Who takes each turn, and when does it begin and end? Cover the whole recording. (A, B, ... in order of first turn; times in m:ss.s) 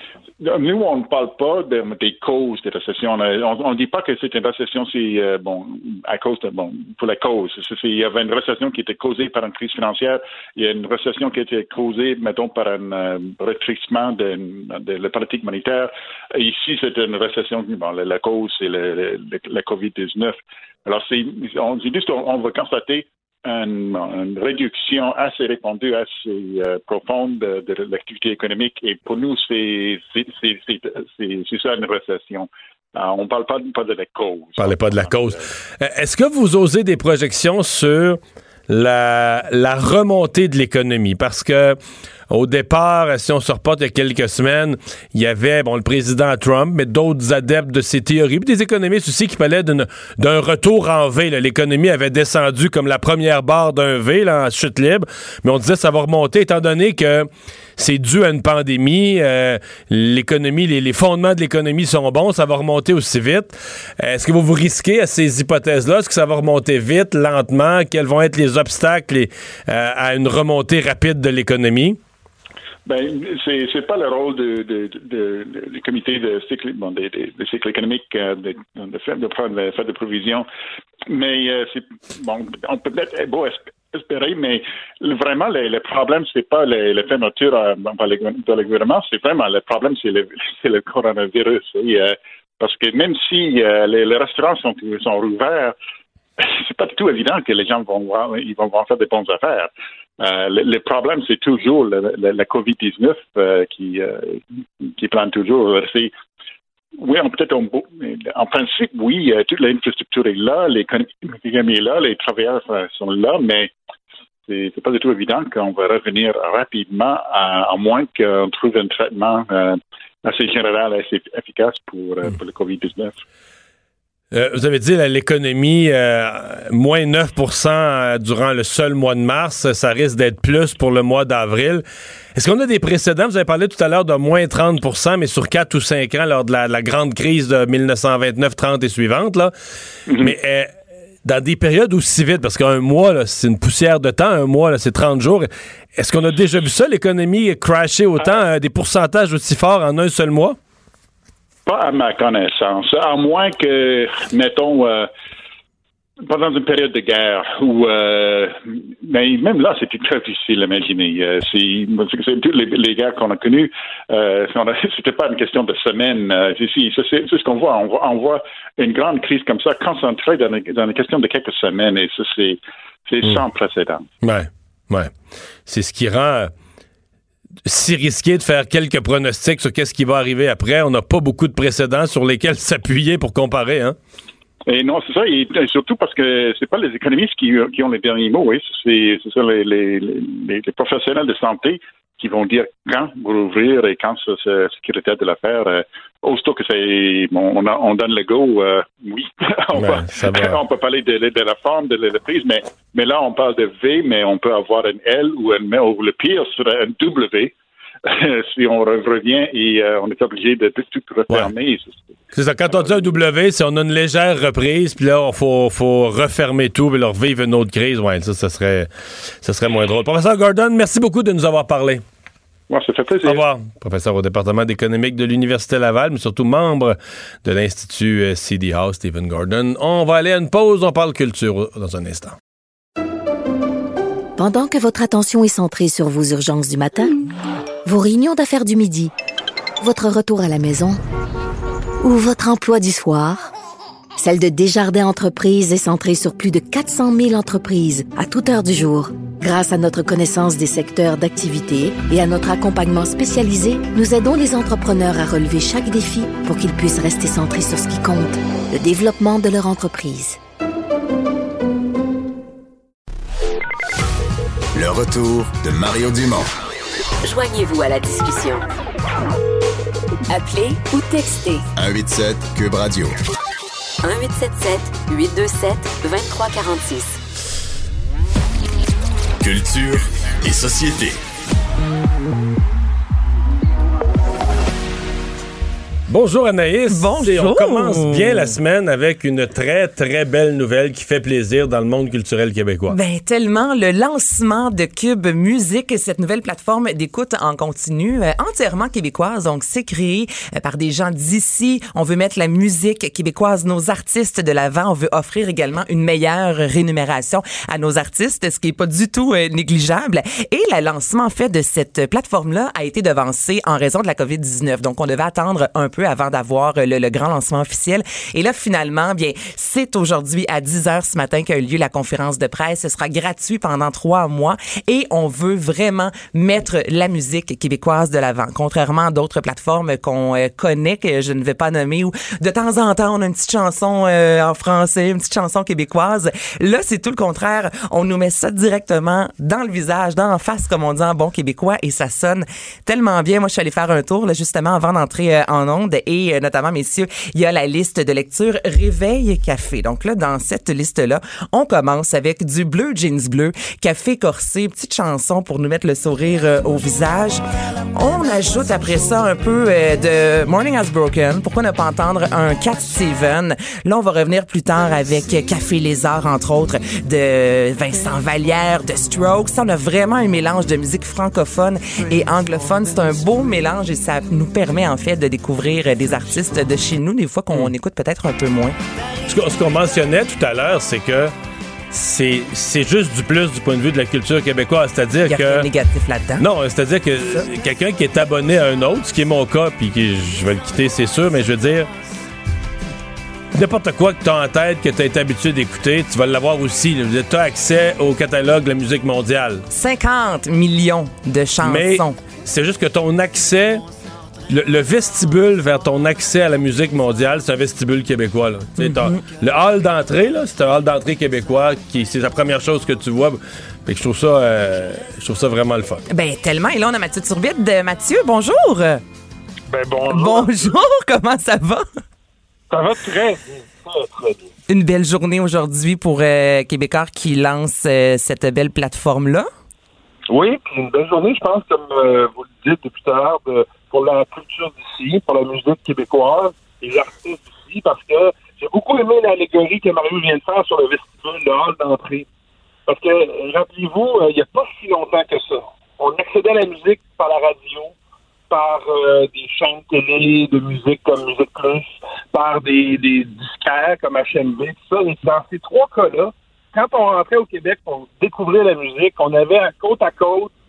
0:00.4-0:35.4 A
0:34.6-0:41.8 B
0:42.3-1:12.0 B
1:12.9-1:20.5 A
1:21.1-1:35.8 A
1:36.4-1:46.1 A
1:47.0-1:53.7 A
1:54.5-2:03.2 A
2:04.3-2:19.5 B
2:20.1-2:20.3 A
2:20.2-2:20.7 B
2:21.2-2:30.6 B
2:31.7-2:35.1 A
2:36.3-2:54.1 A
2:54.2-2:55.1 B
2:55.7-2:56.5 B
2:57.6-3:04.0 B
3:04.7-3:27.5 A
3:19.8-3:20.6 B
3:28.1-3:32.2 A
3:32.3-3:42.0 B
3:32.7-3:33.1 A
3:42.7-3:43.4 A
3:43.2-3:52.4 B
3:54.4-3:57.1 C
3:57.8-3:59.1 C
3:59.8-4:01.0 C
4:02.0-4:03.5 C
4:04.2-4:20.4 C
4:24.8-4:26.5 D
4:27.2-4:28.7 E
4:30.3-4:31.7 E
4:31.8-4:33.2 D
4:34.0-4:37.2 E
4:39.4-4:41.2 D
4:46.1-4:53.0 B
4:46.9-4:48.5 F
4:52.9-5:57.4 F
5:57.9-6:18.8 F
6:19.3-6:21.3 B
6:21.9-6:25.7 B
6:25.3-6:26.4 F
6:26.4-6:31.9 B
6:33.5-6:39.7 B
6:39.7-6:42.2 F
6:41.6-6:43.8 B
6:44.5-6:56.0 B
6:48.8-6:49.2 F
6:56.1-6:59.0 F
6:59.7-7:00.7 G
7:00.1-7:01.8 F
7:02.7-7:04.5 G
7:04.7-7:09.5 F
7:10.3-7:22.3 G
7:22.9-7:27.9 G
7:28.5-7:40.5 G